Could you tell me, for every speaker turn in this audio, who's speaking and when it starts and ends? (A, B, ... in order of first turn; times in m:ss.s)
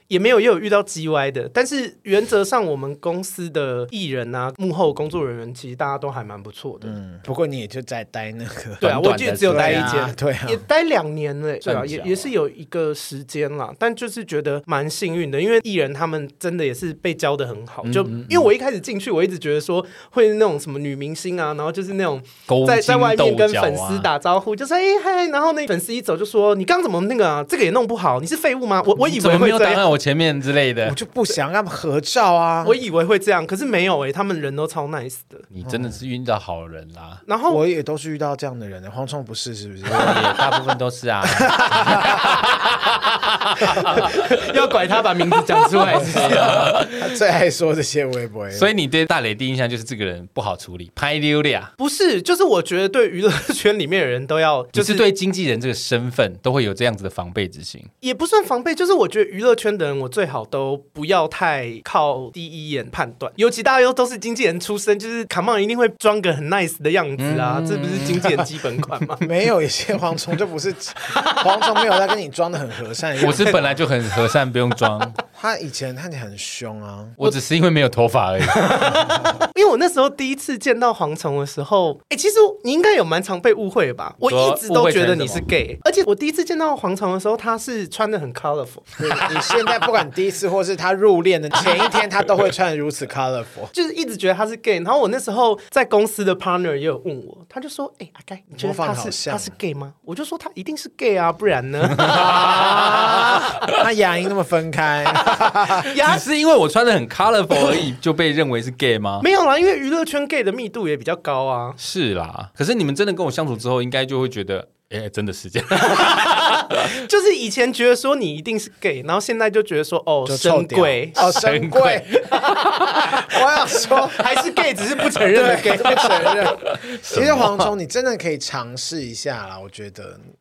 0:00.1-0:07.0 A
0:06.8-0:10.6 B
0:08.8-0:29.8 A
0:08.8-0:10.0 C
0:11.6-0:12.3 C
0:17.8-0:18.5 C
0:22.5-0:24.1 C
0:29.0-0:31.0 C
0:30.8-0:32.8 B
0:32.6-0:35.4 A
0:35.5-0:37.2 C
0:35.6-0:36.0 B
0:37.2-0:37.6 A
0:37.5-0:40.5 B
0:39.9-0:44.5 C
0:41.2-0:42.4 B
0:43.6-0:46.7 A
0:45.6-0:47.1 C
0:45.9-0:48.7 B
0:48.5-0:51.7 C
0:51.8-0:55.0 A
0:54.7-0:57.9 C
0:58.0-1:09.3 A
1:07.2-1:08.5 C
1:09.2-1:13.8 B
1:11.1-1:11.8 A
1:13.2-1:15.1 C
1:13.3-1:13.6 A
1:15.3-1:17.2 B
1:17.2-1:18.9 C
1:18.4-1:29.4 A
1:24.2-1:25.4 C
1:29.0-1:33.7 B
1:33.7-1:42.5 A
1:38.6-1:39.5 B
1:41.9-1:43.8 C
1:42.1-1:45.9 B
1:45.8-1:46.2 A
1:45.8-1:49.2 C
1:49.2-1:51.8 A
1:51.8-1:56.9 C
1:55.7-2:01.4 A
2:00.2-2:02.1 B
2:01.2-2:02.6 C
2:02.3-2:06.5 A
2:03.1-2:04.2 B
2:05.3-2:10.2 B
2:06.6-2:07.6 C